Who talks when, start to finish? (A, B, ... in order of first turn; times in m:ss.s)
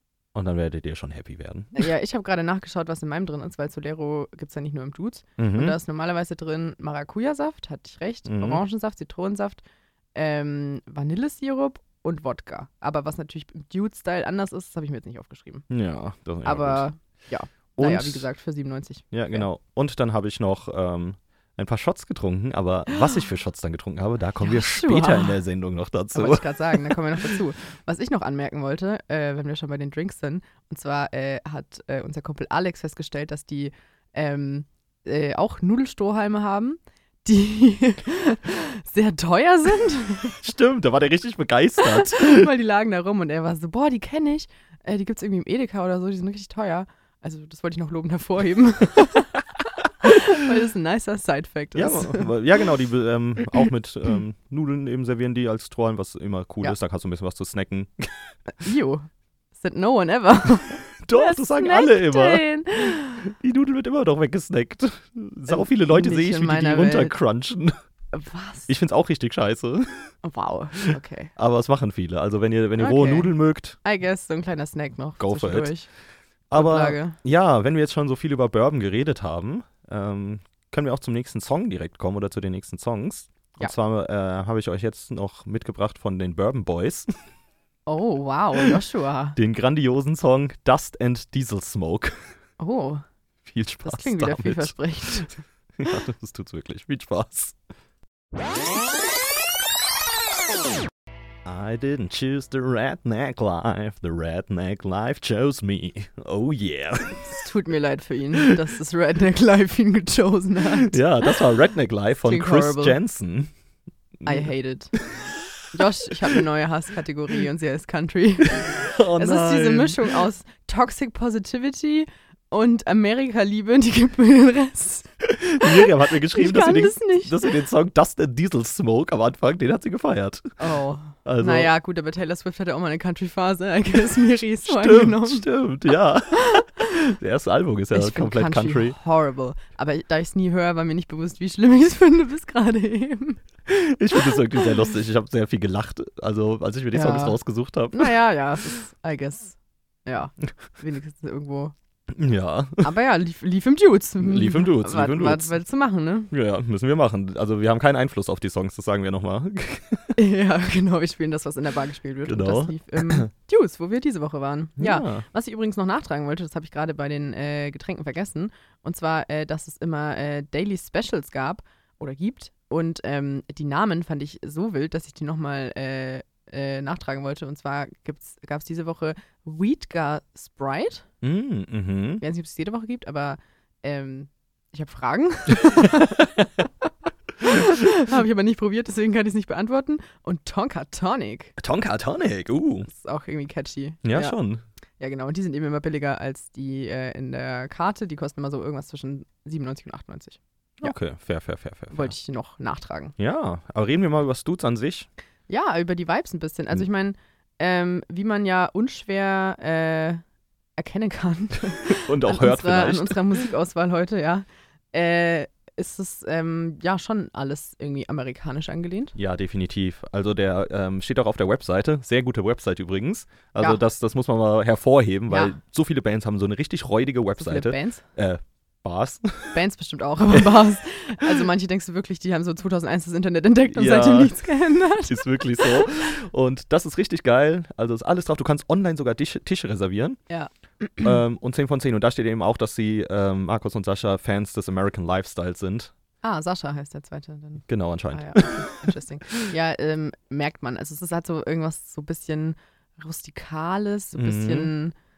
0:00.3-0:01.8 A
0:01.7-0:09.6 B
0:05.4-0:05.8 A
0:08.2-0:08.6 A
0:10.1-0:15.6 B
0:15.7-0:16.9 A
0:16.4-0:19.4 B
0:17.8-0:18.3 A
0:19.1-0:27.3 A
0:24.4-0:25.4 B
0:26.1-0:40.4 B
0:40.4-0:42.5 A
0:41.8-0:49.3 B
0:50.0-0:52.3 B
0:51.7-0:58.3 A
0:58.6-1:03.2 B
1:01.0-1:07.8 A
1:05.5-1:07.2 B
1:08.1-1:08.7 B
1:08.7-1:10.1 A
1:10.2-1:11.3 B
1:11.4-1:13.8 A
1:12.8-1:15.9 B
1:15.2-1:15.8 A
1:16.5-1:27.1 A
1:16.5-1:17.2 B
1:27.8-1:29.4 B
1:29.4-1:32.2 A
1:32.6-1:33.0 B
1:33.4-1:37.6 A
1:33.8-1:35.3 B
1:41.4-1:47.4 A
1:47.3-1:51.0 B
1:50.7-1:53.5 A
1:52.2-1:53.0 B
1:54.2-1:54.5 A
1:54.2-1:54.9 B
1:55.7-2:07.4 B
1:58.6-2:00.2 A
2:05.2-2:10.6 A
2:10.6-2:15.5 B
2:11.2-2:11.7 A
2:14.6-2:19.0 A
2:16.4-2:16.8 B
2:17.9-2:23.4 B
2:23.7-2:28.1 A
2:26.9-2:27.4 B
2:27.9-2:31.7 B
2:32.1-2:32.9 A
2:32.8-2:36.3 B
2:34.2-2:35.6 A
2:36.3-2:40.2 A
2:40.2-3:01.0 B
2:42.2-2:43.3 A
2:44.8-2:45.2 A
3:01.2-3:02.2 A
3:02.2-3:06.3 B
3:05.7-3:06.4 A
3:07.4-3:11.5 B
3:11.6-3:12.9 A
3:12.9-3:14.4 B
3:14.0-3:14.6 A
3:15.0-3:20.9 B
3:20.8-3:22.1 A
3:21.9-3:23.1 B
3:23.2-3:25.1 A
3:25.5-3:30.2 B
3:30.8-3:39.1 B
3:31.9-3:33.4 A
3:39.2-3:49.6 A
3:45.3-3:45.5 B
3:47.4-3:48.0 B
3:49.5-3:55.9 B
3:53.7-4:00.2 A
4:00.3-4:01.1 B
4:01.0-4:05.9 A
4:06.2-4:14.9 B
4:07.7-4:08.9 A
4:14.1-4:14.7 A